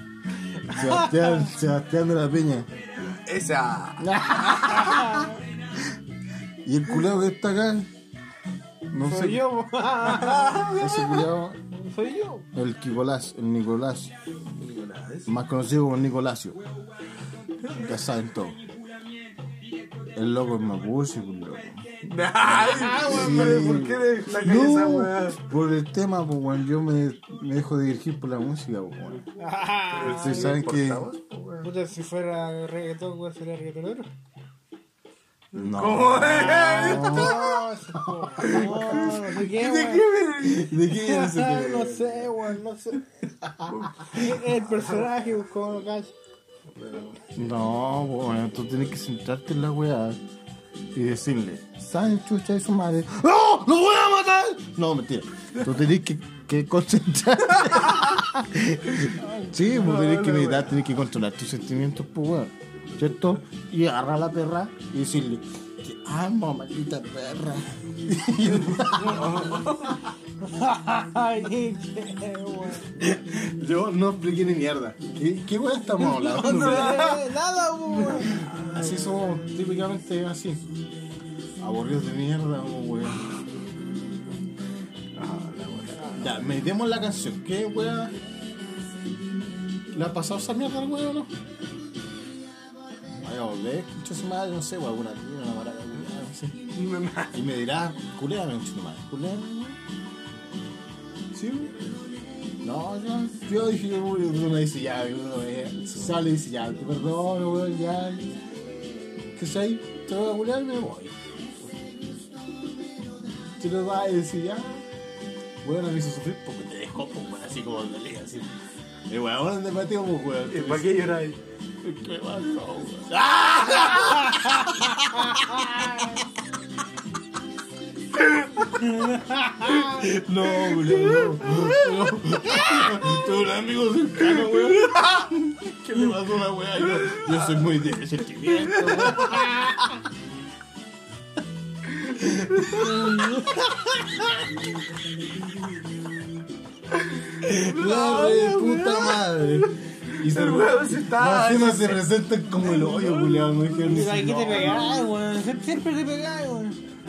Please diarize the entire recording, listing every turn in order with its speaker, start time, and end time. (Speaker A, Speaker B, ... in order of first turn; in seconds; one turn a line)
Speaker A: 0.7-2.7
Speaker B: 0.7-1.5
Speaker C: 3.1-4.8
Speaker A: 4.0-5.3
Speaker B: 4.7-5.3
Speaker A: 6.6-7.9
Speaker A: 8.9-9.4
Speaker B: 9.0-10.9
Speaker C: 10.1-10.8
Speaker A: 10.7-11.6
Speaker B: 11.7-12.5
Speaker A: 12.5-14.1
Speaker C: 14.4-15.3
Speaker A: 15.2-16.6
Speaker A: 17.6-18.6
Speaker A: 20.1-29.2
Speaker C: 22.0-25.4
Speaker B: 29.4-30.6
Speaker C: 29.9-31.7
Speaker A: 30.0-31.1
Speaker B: 31.6-34.1
Speaker A: 35.5-37.5
Speaker C: 35.5-37.6
Speaker B: 36.5-40.2
Speaker C: 38.4-40.7
Speaker A: 38.4-39.1
Speaker A: 40.4-42.3
Speaker B: 40.9-43.1
Speaker C: 43.6-45.2
Speaker B: 44.0-46.1
Speaker C: 46.8-47.2
Speaker A: 47.3-50.2
Speaker A: 50.9-69.4
Speaker B: 59.2-59.5
Speaker C: 59.7-60.8
Speaker C: 68.7-70.0
Speaker B: 70.4-72.9
Speaker A: 73.0-77.1
Speaker B: 76.0-78.8
Speaker C: 76.2-77.2
Speaker A: 78.1-80.7
Speaker C: 78.1-78.7
Speaker A: 81.6-83.2
Speaker C: 85.1-86.3
Speaker A: 86.1-88.2
Speaker A: 89.9-91.3
Speaker A: 93.2-96.7
Speaker C: 96.7-97.5
Speaker A: 97.3-99.8
Speaker A: 101.3-101.8
Speaker A: 102.6-108.3
Speaker A: 109.3-111.9
Speaker A: 113.6-114.8
Speaker A: 115.6-118.5
Speaker A: 119.1-121.2
Speaker C: 120.5-121.4
Speaker A: 121.8-126.2
Speaker C: 128.2-128.9
Speaker A: 129.0-140.0
Speaker C: 129.7-131.9
Speaker C: 134.4-135.2
Speaker C: 136.9-137.7
Speaker C: 138.4-139.5
Speaker C: 141.9-143.7
Speaker A: 142.7-143.6
Speaker C: 146.9-152.0
Speaker A: 147.4-155.1
Speaker C: 152.7-153.4
Speaker B: 153.7-156.8